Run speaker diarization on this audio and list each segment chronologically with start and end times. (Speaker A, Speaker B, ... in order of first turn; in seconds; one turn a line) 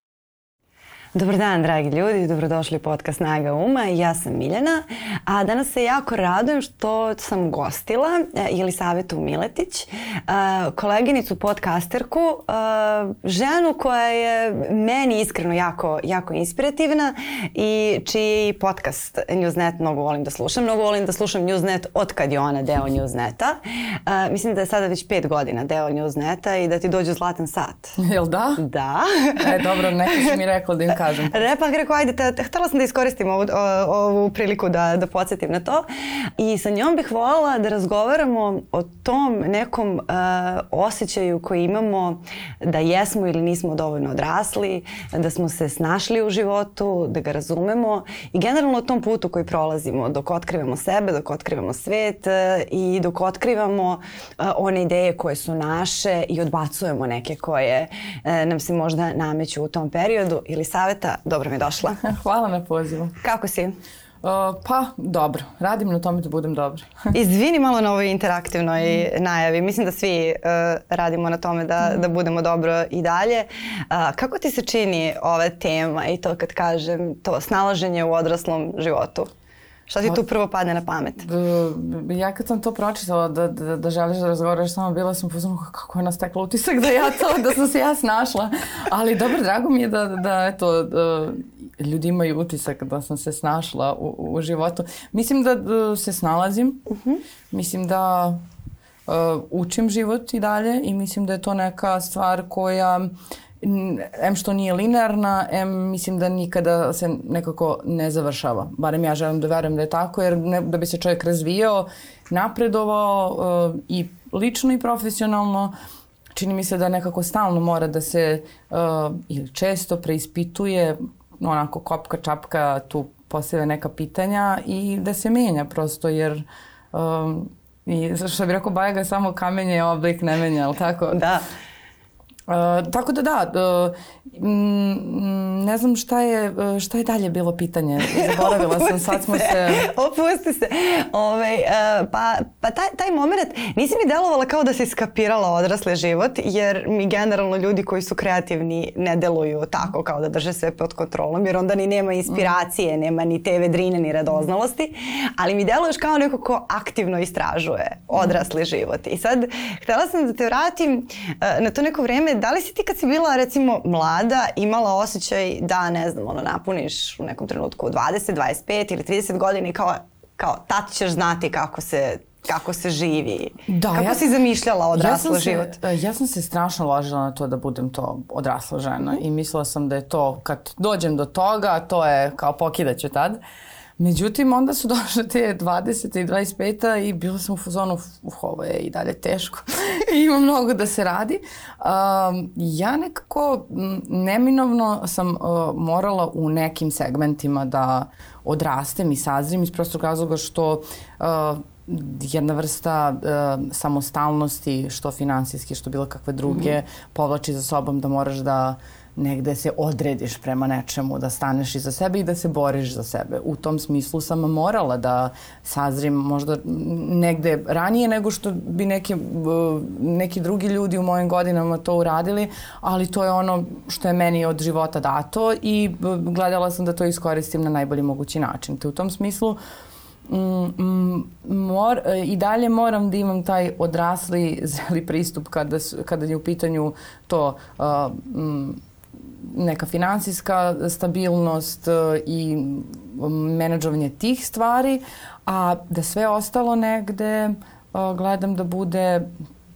Speaker A: 1.1-28.0
Speaker B: 28.0-28.6
Speaker A: 28.6-30.4
Speaker B: 29.4-31.5
Speaker A: 31.3-35.9
Speaker A: 36.4-62.0
Speaker B: 62.0-63.1
Speaker A: 63.2-63.8
Speaker B: 64.2-67.1
Speaker A: 67.1-79.3
Speaker A: 79.9-81.3
Speaker B: 81.2-96.9
Speaker B: 97.5-98.4
Speaker B: 99.1-115.7
Speaker B: 116.3-131.2
Speaker A: 131.1-131.4
Speaker B: 132.5-139.9
Speaker A: 138.1-175.8
Speaker B: 173.7-174.2
Speaker B: 174.9-183.4
Speaker B: 184.0-229.6
Speaker B: 230.3-249.3